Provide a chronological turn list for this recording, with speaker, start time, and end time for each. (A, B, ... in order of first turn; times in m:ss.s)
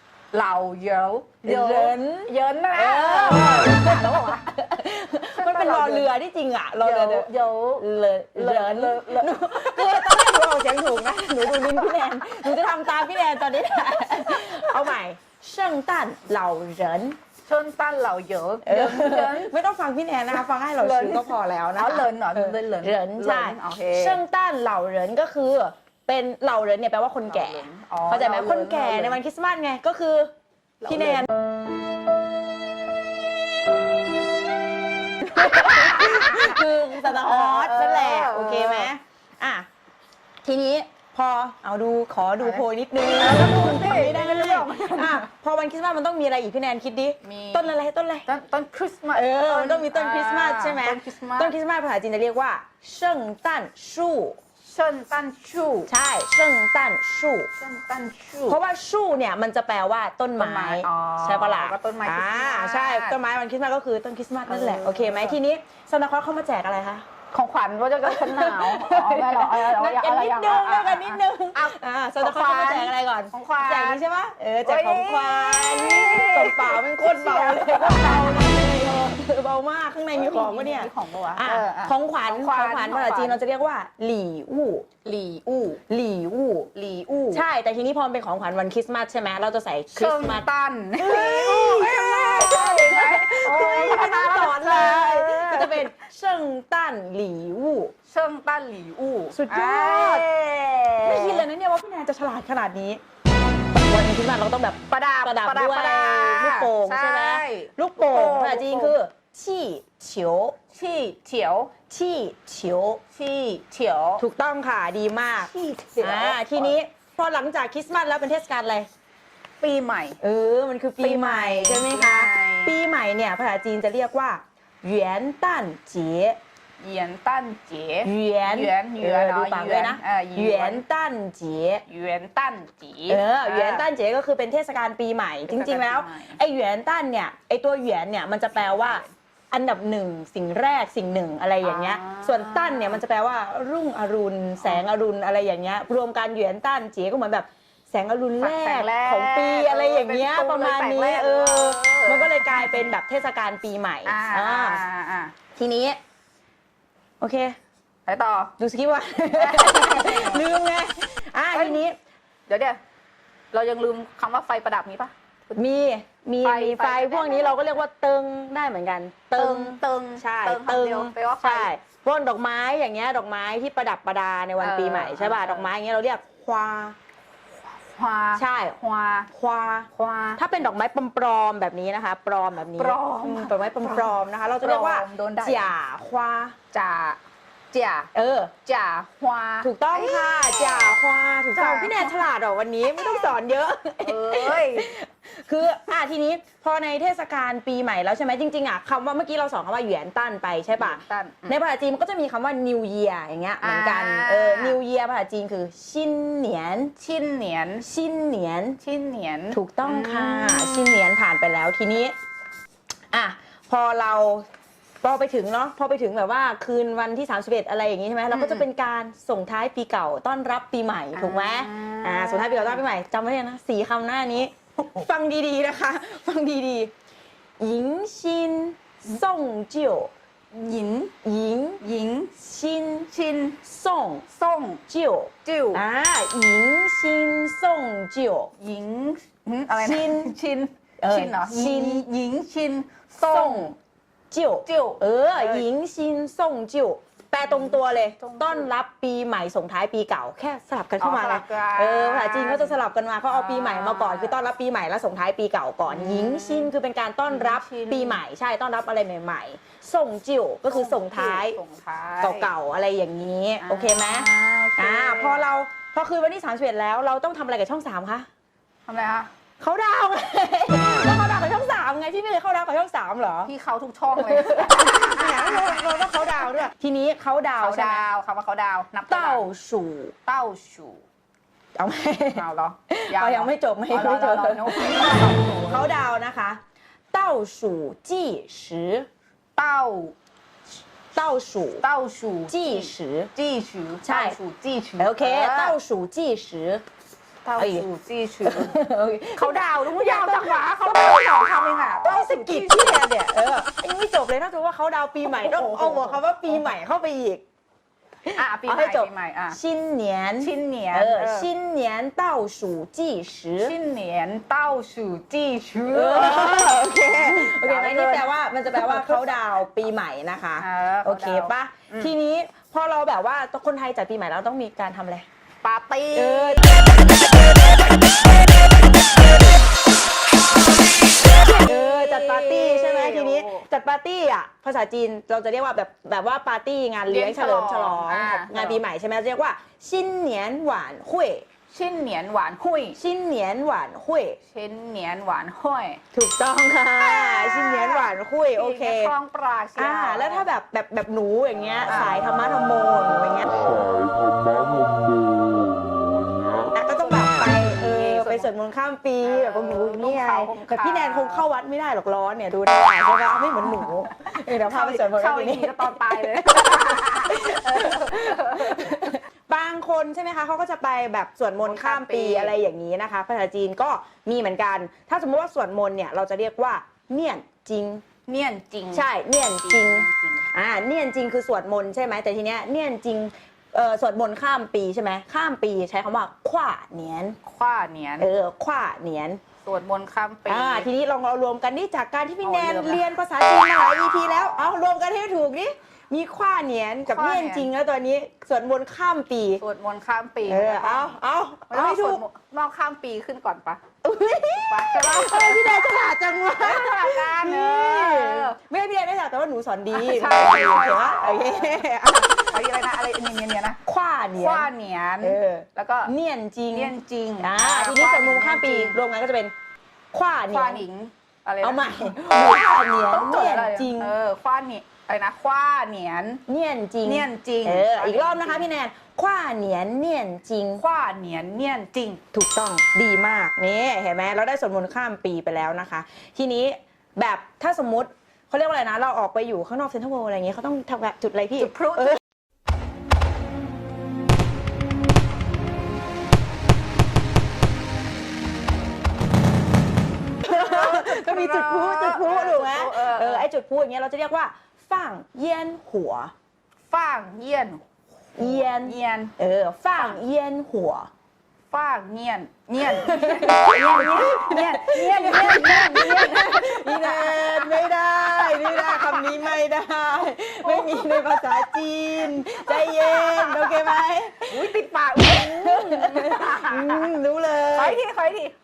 0:00.3-0:04.6 A
0:01.4-0:17.2 B
0:05.4-0:06.1 A
0:06.8-0:10.0 A
0:11.5-0:12.4 A
0:14.0-0:14.7 A
0:17.4-0:19.5 A
0:18.6-0:30.3 B
0:20.8-0:24.2 A
0:27.3-0:29.2 A
0:30.8-0:31.3 A
0:30.8-0:31.3 B
0:35.2-0:39.7 B
0:35.4-0:38.9 A
0:40.4-0:48.3 B
0:43.2-0:45.3 A
0:47.2-0:47.7 A
0:48.2-0:51.5 A
0:49.1-0:54.4 B
0:54.6-0:55.9 A
0:55.9-0:57.5 B
0:57.6-0:58.6 A
0:58.5-1:07.1 B
1:00.4-1:03.2 A
1:04.5-1:05.4 A
1:07.3-1:14.0 A
1:08.0-1:24.9 B
1:14.6-1:18.9 A
1:20.1-1:23.4 A
1:25.0-1:25.8 A
1:25.9-1:26.7 B
1:26.7-1:27.4 A
1:27.3-1:37.9 B
1:29.9-1:35.9 A
1:38.1-1:41.5 A
1:39.3-1:40.3 B
1:41.0-1:43.0 B
1:43.7-1:50.6 B
1:44.9-1:49.0 A
1:50.7-1:51.8 A
1:51.9-1:53.0 B
1:53.1-1:54.3 A
1:54.2-1:58.9 B
1:55.4-1:56.8 A
1:59.6-2:00.2 A
2:00.2-2:06.4 B
2:01.0-2:02.8 A
2:06.8-2:10.8 A
2:08.0-2:11.8 B
2:11.9-2:13.9 A
2:13.1-2:34.9 B
2:15.5-2:16.4 A
2:18.6-2:19.1 A
2:21.6-2:23.0 A
2:28.4-2:32.9 A
2:34.0-2:35.3 A
2:35.6-2:36.0 B
2:37.2-2:37.6 B
2:38.1-2:38.6 A
2:38.6-2:42.0 B
2:39.3-2:40.4 A
2:41.5-2:41.8 A
2:42.5-2:42.8 A
2:43.5-2:45.1 A
2:45.5-2:57.0 B
2:46.4-2:47.6 A
2:49.4-2:51.7 A
2:54.6-2:55.7 A
2:57.8-2:59.3 A
2:58.4-2:58.8 B
2:59.3-3:06.6 B
2:59.9-3:00.5 A
3:02.7-3:05.7 A
3:06.7-3:07.2 A
3:07.7-3:08.1 A
3:08.1-3:08.5 B
3:08.6-3:11.0 A
3:09.6-3:26.9 B
3:11.5-3:12.3 A
3:12.9-3:13.3 A
3:14.0-3:14.9 A
3:20.8-3:21.6 A
3:23.6-3:24.8 A
3:27.0-3:27.9 A
3:27.8-3:28.8 B
3:28.8-3:31.0 A
3:29.5-3:32.2 B
3:33.1-3:34.5 B
3:35.0-3:46.9 B
3:38.3-3:38.6 A
3:41.1-3:42.8 A
3:47.6-3:50.1 B
3:50.5-3:51.2 A
3:51.2-3:51.8 B
3:51.8-3:52.3 A
3:52.4-3:53.1 B
3:53.0-3:53.6 A
3:53.6-3:54.3 B
3:54.3-3:54.8 A
3:54.9-3:58.5 B
3:55.4-3:55.8 A
3:58.6-4:03.8 A
3:59.7-4:00.3 B
4:01.0-4:02.1 B
4:03.2-4:03.8 B
4:04.3-4:21.6 B
4:04.6-4:05.7 A
4:07.5-4:08.7 A
4:11.0-4:14.5 A
4:15.9-4:16.7 A
4:17.3-4:18.2 A
4:20.7-4:22.5 A
4:22.2-4:28.3 B
4:23.6-4:25.5 A
4:28.9-4:29.3 A
4:29.6-4:33.5 B
4:33.4-4:36.5 A
4:34.1-4:38.1 B
4:37.6-4:39.5 A
4:39.1-4:40.2 B
4:40.2-4:41.0 A
4:41.8-4:46.6 B
4:42.3-4:45.9 A
4:47.1-4:49.1 B
4:49.6-4:50.2 A
4:51.1-4:51.8 B
4:51.8-4:55.8 A
4:52.5-4:53.3 B
4:54.0-4:54.4 B
4:55.0-4:56.8 B
4:57.4-4:58.8 A
4:57.6-4:57.9 B
4:58.4-5:07.4 B
4:59.3-5:03.0 A
5:05.2-5:06.6 A
5:08.3-5:13.8 B
5:08.4-5:09.6 A
5:10.4-5:11.5 A
5:13.6-5:19.2 A
5:15.9-5:25.3 B
5:20.6-5:22.1 A
5:25.6-5:27.0 A
5:26.1-5:27.1 B
5:31.2-5:33.7 A
5:31.3-5:41.4 B
5:37.1-5:38.8 A
5:41.7-5:43.0 A
5:43.0-5:44.4 B
5:44.5-5:46.0 A
5:46.1-5:49.2 B
5:47.0-5:50.5 A
5:49.8-5:53.9 B
5:51.9-5:52.3 A
5:54.0-5:56.5 C
5:56.7-6:18.0 B
5:57.0-5:58.5 A
5:59.2-6:01.5 A
6:03.6-6:09.2 A
6:11.6-6:12.5 A
6:18.3-6:20.5 A
6:18.9-6:27.4 B
6:27.4-6:28.3 A
6:28.2-6:29.4 B
6:29.6-6:30.9 A
6:30.5-6:39.6 B
6:32.4-6:33.0 A
6:37.1-6:37.7 A
6:39.6-6:41.2 A
6:40.5-6:42.2 B
6:41.7-6:43.8 A
6:44.0-6:52.6 B
6:44.6-6:48.6 A
6:49.9-6:53.8 A
6:53.9-6:59.5 B
6:54.4-6:56.1 A
6:56.7-6:59.0 A
7:00.1-7:00.9 B
7:00.5-7:06.4 A
7:01.6-7:04.2 B
7:06.5-7:10.8 B
7:07.0-7:08.7 A
7:10.8-7:12.2 A
7:12.3-7:22.2 B
7:21.6-7:22.2 A
7:30.4-7:36.3 B
7:30.4-7:33.5 A
7:36.9-7:37.8 A
7:38.4-7:41.1 B
7:38.4-7:39.3 A
7:41.7-7:49.5 A
7:42.8-7:58.0 B
7:50.6-7:51.8 A
7:52.4-7:53.8 A
7:54.5-7:57.1 A
7:57.8-7:58.6 A